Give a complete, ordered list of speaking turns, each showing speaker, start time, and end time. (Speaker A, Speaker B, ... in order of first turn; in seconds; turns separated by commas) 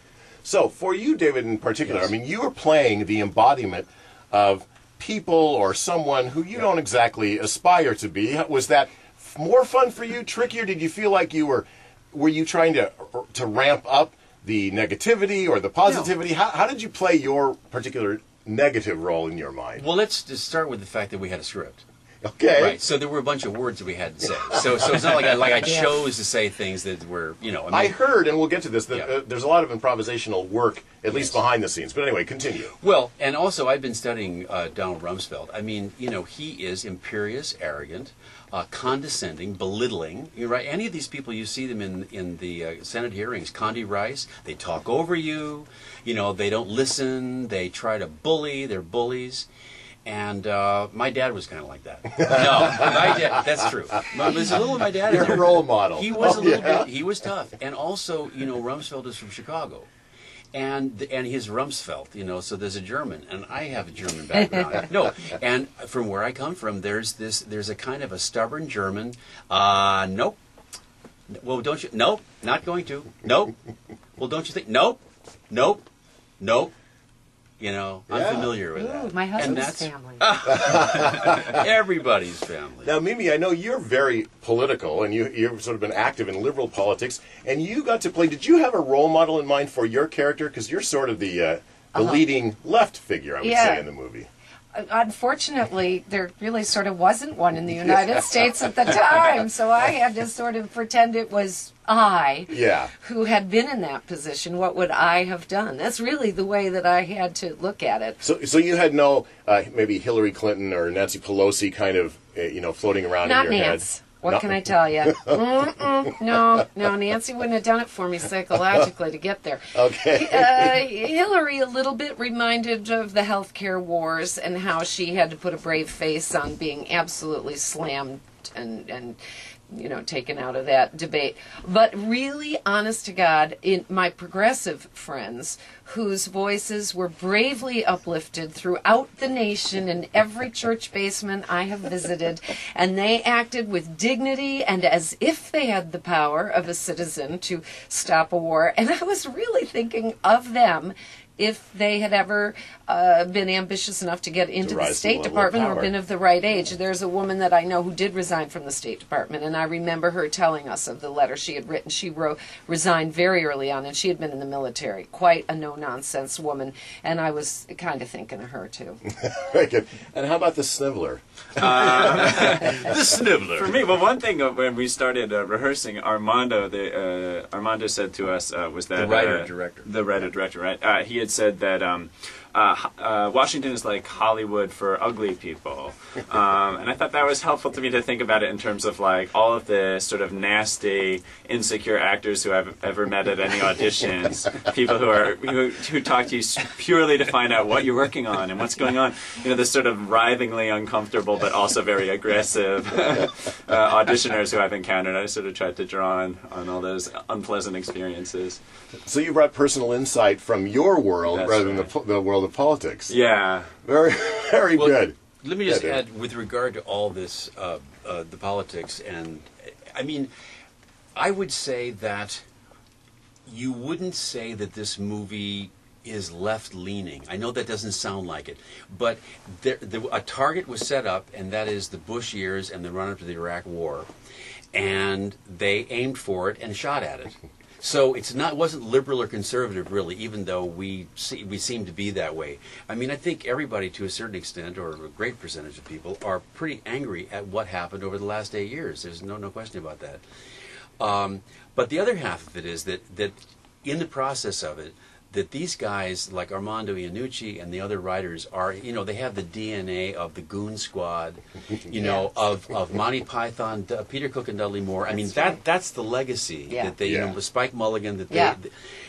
Speaker A: 0.4-19.9, Speaker B: 15.8-16.1, Speaker B: 19.8-21.9, Speaker A: 22.2-22.8, Speaker B: 22.6-28.0, Speaker A: 27.7-32.7, Speaker B: 31.1-31.4, Speaker B: 32.8-49.5, Speaker B: 50.1-59.9, Speaker A: 52.2-53.2, Speaker A: 54.9-56.9, Speaker B: 60.5-70.4, Speaker B: 71.4-73.6, Speaker B: 74.2-75.9, Speaker B: 76.4-76.7, Speaker B: 77.6-82.9, Speaker A: 78.1-78.6, Speaker C: 78.8-80.3, Speaker A: 80.5-81.6, Speaker A: 82.8-94.3, Speaker C: 91.9-92.2, Speaker C: 93.4-93.9, Speaker C: 94.7-108.2, Speaker A: 97.8-98.2, Speaker A: 102.5-102.9, Speaker A: 108.2-115.4, Speaker C: 113.2-129.2, Speaker A: 119.7-120.7, Speaker C: 129.7-169.0, Speaker A: 154.6-155.9, Speaker A: 169.2-172.9, Speaker D: 171.6-172.8, Speaker B: 172.1-173.8, Speaker D: 173.6-208.6, Speaker B: 179.0-179.9, Speaker A: 209.1-213.1, Speaker D: 211.3-211.9, Speaker D: 213.1-213.7, Speaker A: 213.8-216.0, Speaker B: 214.8-220.3, Speaker B: 221.2-222.4, Speaker B: 223.5-234.1, Speaker B: 234.7-250.2, Speaker B: 251.0-268.7, Speaker C: 261.9-262.3, Speaker C: 265.1-265.6, Speaker A: 267.0-267.4, Speaker C: 268.3-268.6